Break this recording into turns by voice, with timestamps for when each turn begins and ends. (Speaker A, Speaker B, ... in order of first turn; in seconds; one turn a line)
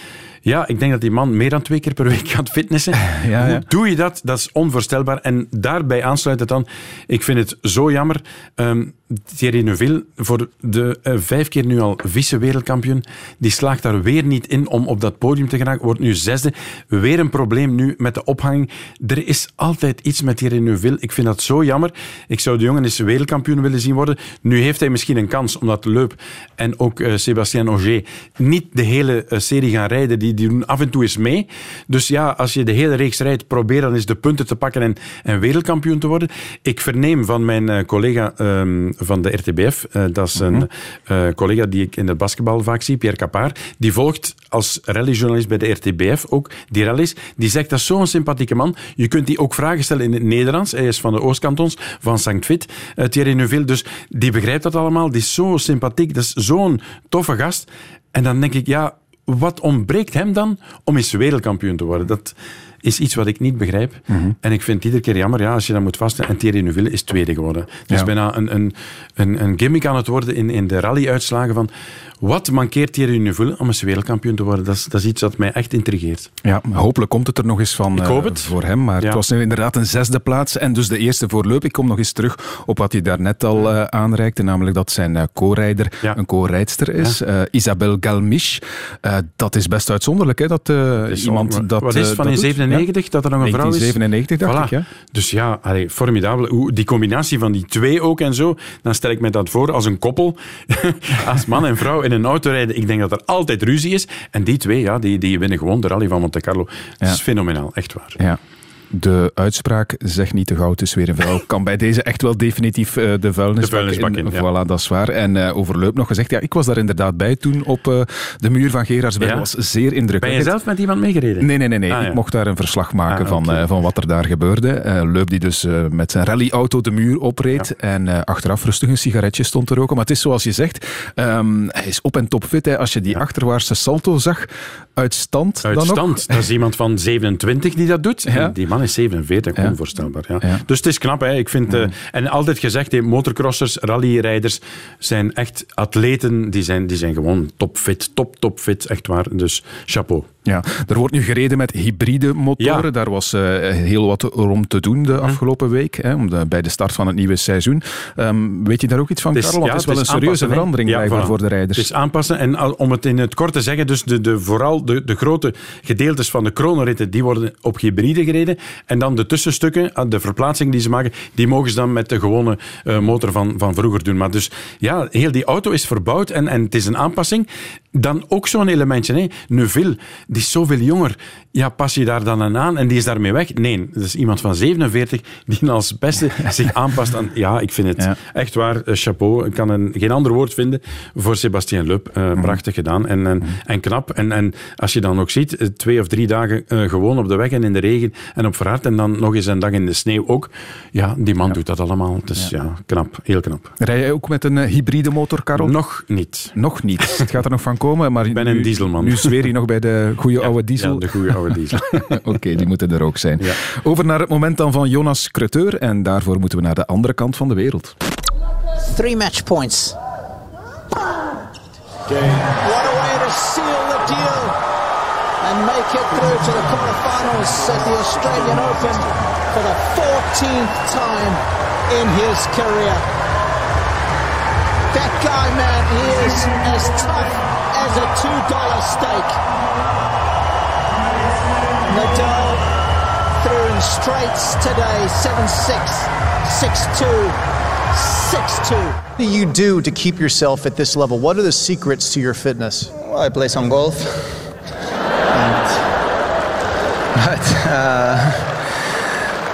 Speaker A: 0.4-71.7
Speaker B: 3.1-3.6
Speaker B: 40.4-40.6
Speaker B: 64.1-64.3
Speaker A: 72.2-76.3
Speaker B: 76.4-92.8
Speaker A: 77.9-79.2
Speaker A: 91.1-108.2
Speaker B: 93.4-94.8
Speaker B: 108.9-120.5
Speaker A: 113.6-114.4
Speaker A: 119.2-119.5
Speaker A: 120.2-122.2
Speaker B: 121.4-136.4
Speaker A: 123.1-123.6
Speaker A: 135.6-150.3
Speaker B: 138.3-138.5
Speaker B: 150.4-161.9
Speaker A: 152.6-152.9
Speaker A: 159.3-203.7
Speaker B: 203.8-205.8
Speaker A: 205.6-206.5
Speaker B: 206.5-211.3
Speaker A: 208.3-209.4
Speaker A: 210.4-212.2
Speaker B: 212.1-217.9
Speaker C: 218.8-219.9
Speaker C: 222.6-224.5
Speaker C: 225.4-233.1
Speaker C: 234.9-239.4
Speaker C: 241.9-242.7
Speaker C: 243.4-247.4
Speaker C: 247.9-249.0
Speaker D: 249.2-252.9
Speaker E: 252.9-254.5
Speaker E: 255.3-255.9
Speaker E: 257.1-258.8